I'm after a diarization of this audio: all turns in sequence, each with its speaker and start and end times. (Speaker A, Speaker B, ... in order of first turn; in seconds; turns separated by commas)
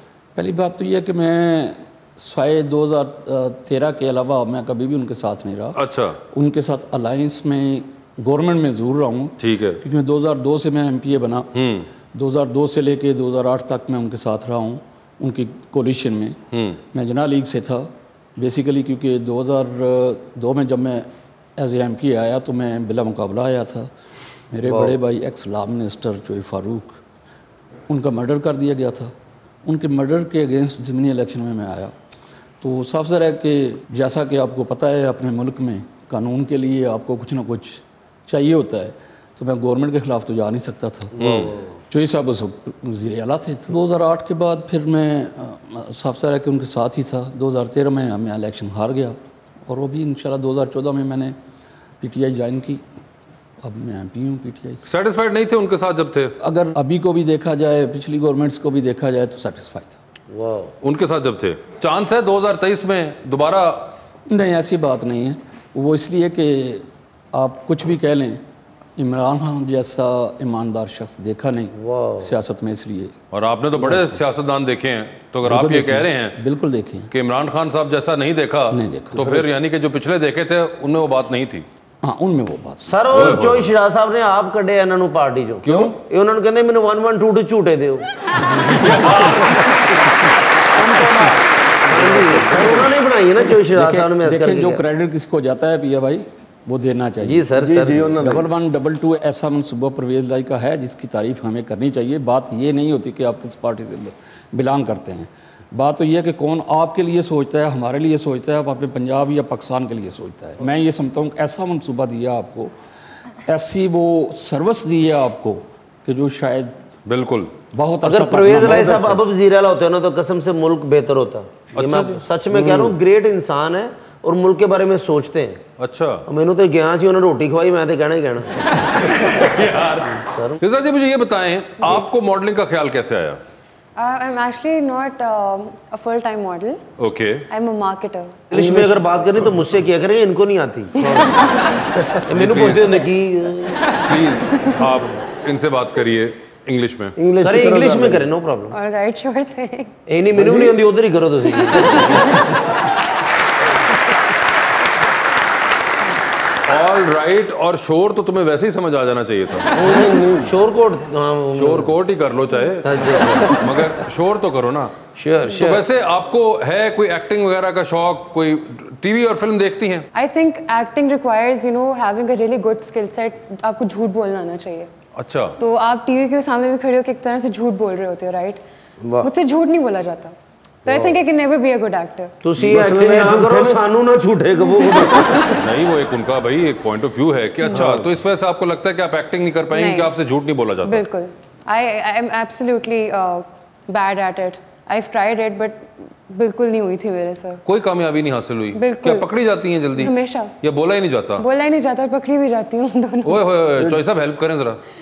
Speaker A: 0.3-11.5, Speaker B: 5.7-6.2, Speaker B: 9.4-9.8, Speaker B: 11.5-11.9, Speaker A: 12.1-16.4, Speaker B: 16.5-16.8, Speaker A: 16.9-23.9, Speaker A: 24.5-27.0, Speaker C: 24.7-24.9, Speaker A: 27.9-29.1, Speaker A: 29.6-31.9, Speaker A: 32.6-41.1, Speaker C: 41.2-41.7, Speaker B: 41.2-41.5, Speaker A: 41.9-51.4, Speaker A: 52.0-52.8, Speaker A: 53.6-54.9, Speaker B: 54.9-56.4, Speaker A: 56.4-60.0, Speaker C: 60.3-60.7, Speaker B: 60.8-63.9, Speaker A: 64.3-68.4, Speaker A: 69.0-73.1, Speaker C: 71.8-72.3, Speaker B: 73.3-76.4, Speaker A: 73.8-74.2, Speaker A: 75.4-77.1, Speaker B: 77.1-81.6, Speaker A: 78.7-79.5, Speaker A: 82.0-83.5, Speaker C: 82.8-88.0, Speaker B: 83.1-83.7, Speaker B: 85.6-85.9, Speaker B: 88.5-90.0, Speaker B: 90.7-91.4, Speaker C: 91.9-94.8, Speaker B: 92.0-92.8, Speaker A: 93.6-112.7, Speaker C: 97.2-98.1, Speaker D: 97.6-98.4, Speaker A: 113.5-116.8, Speaker B: 117.1-117.5, Speaker A: 117.7-119.3, Speaker C: 118.0-125.6, Speaker B: 121.7-122.2, Speaker D: 122.5-122.9, Speaker B: 125.8-126.2, Speaker C: 126.3-128.6, Speaker B: 129.2-133.4, Speaker C: 130.2-130.6, Speaker E: 134.0-136.8, Speaker B: 137.0-137.4, Speaker E: 137.5-138.4, Speaker C: 138.5-141.2, Speaker D: 138.5-139.0, Speaker C: 142.3-143.8, Speaker B: 142.3-143.1, Speaker B: 144.0-147.1, Speaker D: 147.2-148.3, Speaker C: 147.4-148.7, Speaker E: 148.7-149.9, Speaker C: 150.1-152.4, Speaker D: 150.3-150.8, Speaker B: 156.7-159.7, Speaker D: 159.8-160.5, Speaker C: 159.8-161.9, Speaker B: 161.6-164.9, Speaker C: 162.8-163.8, Speaker C: 165.2-165.8, Speaker B: 165.5-170.1, Speaker E: 170.1-174.9, Speaker B: 175.2-175.6, Speaker E: 175.6-178.6, Speaker E: 179.2-182.3, Speaker C: 182.4-185.6, Speaker D: 182.6-183.8, Speaker B: 185.6-191.0, Speaker D: 187.7-188.0, Speaker E: 189.7-190.1, Speaker E: 190.8-197.6, Speaker B: 197.7-201.4, Speaker E: 198.7-199.3, Speaker E: 199.9-200.5, Speaker E: 201.4-203.4, Speaker B: 203.2-204.8